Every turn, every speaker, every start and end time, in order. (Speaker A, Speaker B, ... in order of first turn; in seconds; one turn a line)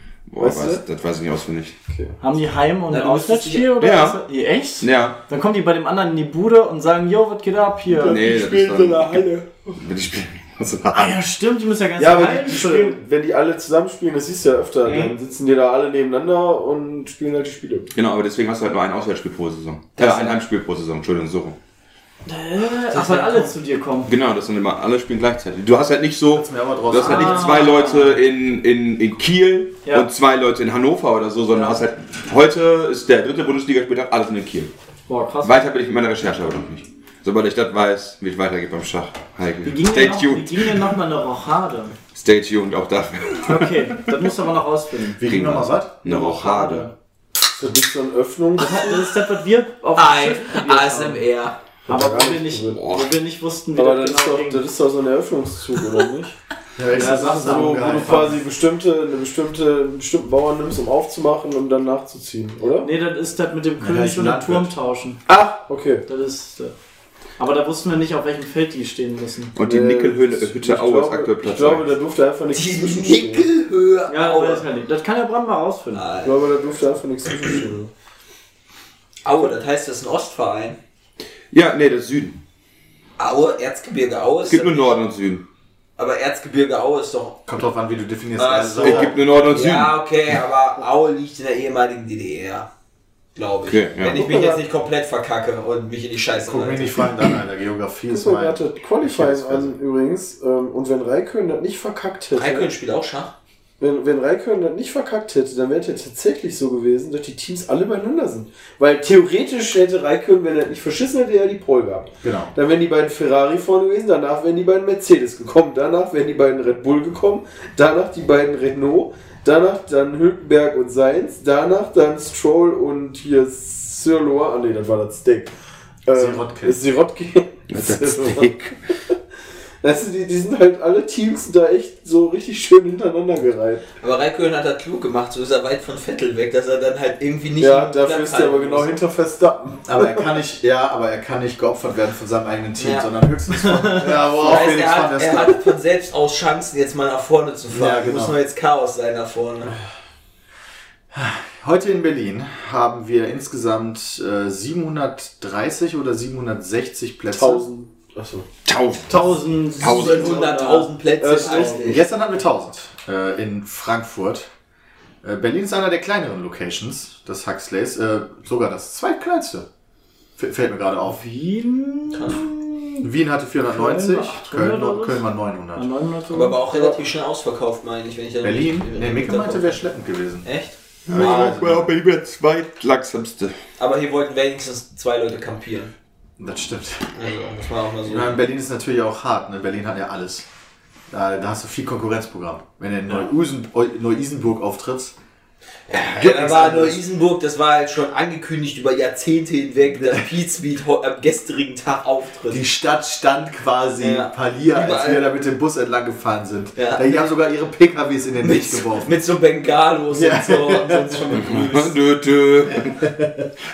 Speaker A: 0.3-1.8
Speaker B: 0.4-0.8
Speaker B: 1.9-2.1
Speaker C: 2.2-8.2
Speaker D: 2.9-3.7
Speaker A: 3.8-4.2
Speaker A: 4.8-5.2
Speaker B: 7.9-9.8
Speaker A: 8.0-9.2
Speaker A: 9.8-11.2
Speaker C: 10.9-13.0
Speaker B: 12.0-17.9
Speaker A: 14.8-15.1
Speaker A: 17.9-21.6
Speaker C: 22.2-24.1
Speaker D: 22.9-23.5
Speaker A: 24.1-34.7
Speaker E: 26.3-27.7
Speaker C: 26.9-28.2
Speaker C: 31.5-31.8
Speaker C: 35.1-35.6
Speaker A: 35.4-40.9
Speaker C: 39.6-42.0
Speaker A: 42.1-44.0
Speaker C: 43.4-45.2
Speaker E: 45.2-46.0
Speaker A: 45.2-46.9
Speaker C: 46.0-46.9
Speaker B: 47.5-48.9
Speaker C: 48.6-51.2
Speaker D: 49.9-51.6
Speaker B: 51.9-52.8
Speaker C: 51.9-54.6
Speaker A: 52.7-53.1
Speaker B: 53.8-56.4
Speaker E: 56.8-58.4
Speaker B: 56.9-62.9
Speaker C: 56.9-58.4
Speaker C: 62.8-65.2
Speaker E: 63.8-64.7
Speaker B: 65.3-66.0
Speaker C: 66.1-66.7
Speaker C: 67.4-69.5
Speaker A: 69.6-71.9
Speaker B: 69.6-73.5
Speaker D: 72.5-74.6
Speaker C: 74.1-76.0
Speaker D: 75.9-76.4
Speaker B: 76.2-77.9
Speaker D: 79.2-80.8
Speaker A: 81.5-82.4
Speaker D: 83.2-85.0
Speaker A: 84.5-85.4
Speaker D: 86.0-87.4
Speaker E: 87.5-89.2
Speaker D: 88.4-92.7
Speaker A: 88.8-90.0
Speaker D: 93.3-97.1
Speaker A: 93.7-94.2
Speaker B: 94.1-94.6
Speaker E: 96.5-99.7
Speaker B: 98.1-102.7
Speaker D: 102.3-103.3
Speaker B: 103.8-125.5
Speaker E: 112.2-112.5
Speaker B: 126.1-128.5
Speaker E: 126.1-126.8
Speaker A: 127.7-128.8
Speaker B: 129.8-133.8
Speaker D: 134.0-139.0
Speaker B: 137.6-140.2
Speaker E: 139.8-145.6
Speaker D: 142.8-143.1
Speaker B: 144.0-144.7
Speaker D: 144.3-149.7
Speaker E: 147.7-148.4
Speaker E: 151.1-157.7
Speaker B: 157.3-158.5
Speaker A: 158.7-160.4
Speaker C: 159.1-161.7
Speaker D: 159.8-162.1
Speaker B: 161.2-162.0
Speaker E: 161.8-164.5
Speaker E: 165.2-169.7
Speaker E: 170.4-171.2
Speaker C: 171.1-173.1
Speaker D: 172.1-172.4
Speaker E: 173.0-175.9
Speaker C: 173.7-177.0
Speaker D: 176.3-179.8
Speaker E: 178.4-180.5
Speaker D: 180.4-181.6
Speaker A: 181.1-183.6
Speaker E: 181.1-181.9
Speaker D: 183.8-185.9
Speaker E: 186.4-187.1
Speaker D: 187.1-188.4
Speaker E: 188.1-190.4
Speaker E: 191.1-195.1
Speaker D: 195.9-202.6
Speaker E: 196.1-197.0
Speaker E: 202.5-209.1
Speaker D: 204.0-205.3
Speaker D: 206.8-207.3
Speaker D: 208.4-211.9
Speaker E: 210.1-211.4
Speaker A: 211.4-213.1
Speaker E: 212.7-213.5